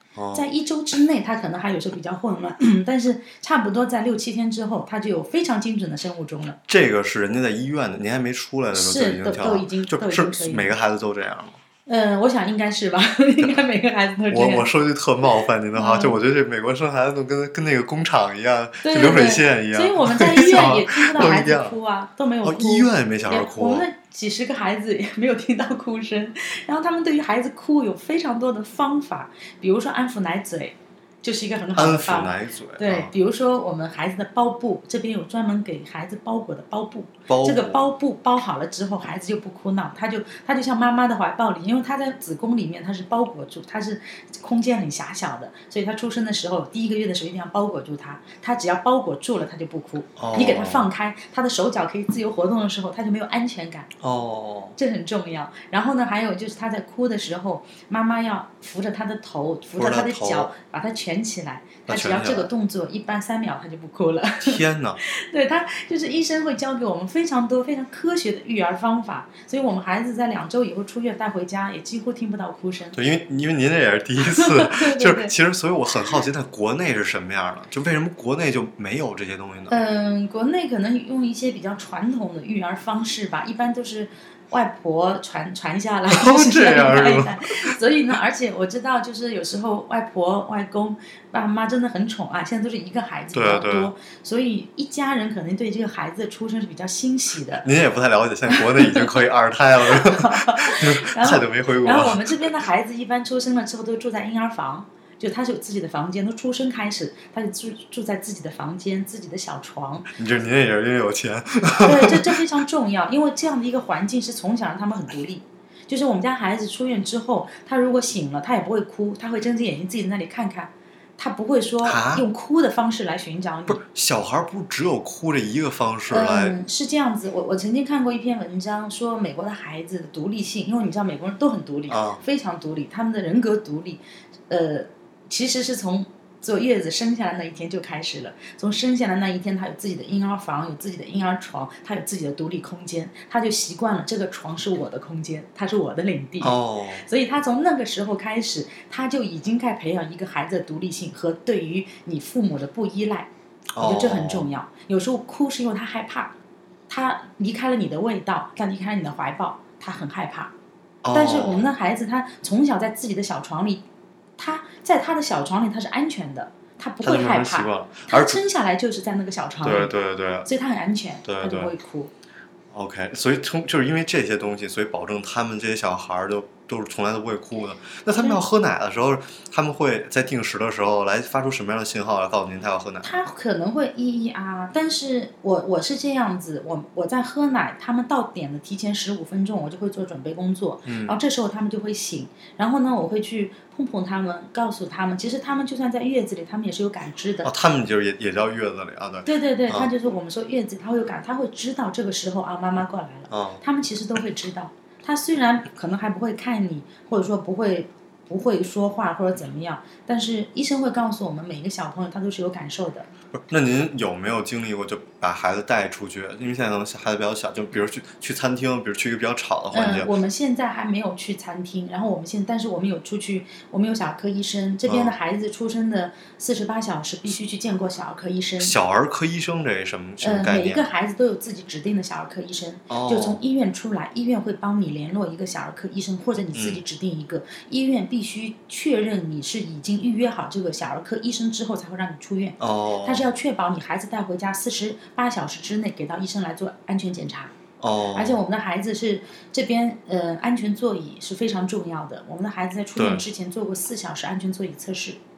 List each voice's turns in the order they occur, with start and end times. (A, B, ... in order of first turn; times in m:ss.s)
0:00.2-0:00.4 A
0:00.3-0:06.6 B
0:06.7-0:11.6 A
0:08.7-0:10.8 B
0:11.9-0:14.7 B
0:14.3-0:21.8 A
0:15.8-0:16.2 B
0:18.8-0:53.9 B
0:22.4-0:23.9 A
0:31.8-0:33.1 A
0:37.3-0:37.9 A
0:50.2-0:50.9 A
0:54.0-0:54.8 A
0:54.8-1:13.0 B
0:59.8-1:00.5 A
1:01.9-1:02.5 A
1:04.4-1:05.0 A
1:12.9-1:19.8 A
1:14.2-1:15.3 B
1:19.7-1:37.7 B
1:26.1-1:27.4 A
1:33.3-1:33.9 A
1:37.6-1:42.5 A
1:38.5-1:39.1 B
1:39.9-1:50.1 B
1:50.2-1:52.4 A
1:51.8-2:03.8 B
2:01.8-2:02.3 A
2:03.7-2:06.6 A
2:06.1-2:36.3 B
2:11.9-2:12.2 A
2:26.4-2:27.0 A
2:33.8-2:34.5 A
2:36.9-2:40.5 B
2:41.0-2:41.7 A
2:41.1-2:43.8 B
2:44.4-2:52.1 B
2:47.0-2:48.4 A
2:49.6-2:50.5 A
2:51.2-2:51.7 A
2:52.7-3:03.1 A
3:03.0-3:17.5 B
3:10.9-3:11.2 A
3:17.4-3:19.9 A
3:19.2-3:33.1 B
3:23.3-3:23.6 A
3:33.3-3:40.1 A
3:39.7-3:48.8 B
3:44.9-3:45.2 A
3:48.6-3:50.9 A
3:50.2-4:07.5 B
3:52.9-3:53.4 A
3:56.5-3:56.8 A
4:02.6-4:03.3 A
4:07.8-4:08.4 A
4:08.1-4:15.2 B
4:13.0-4:13.2 A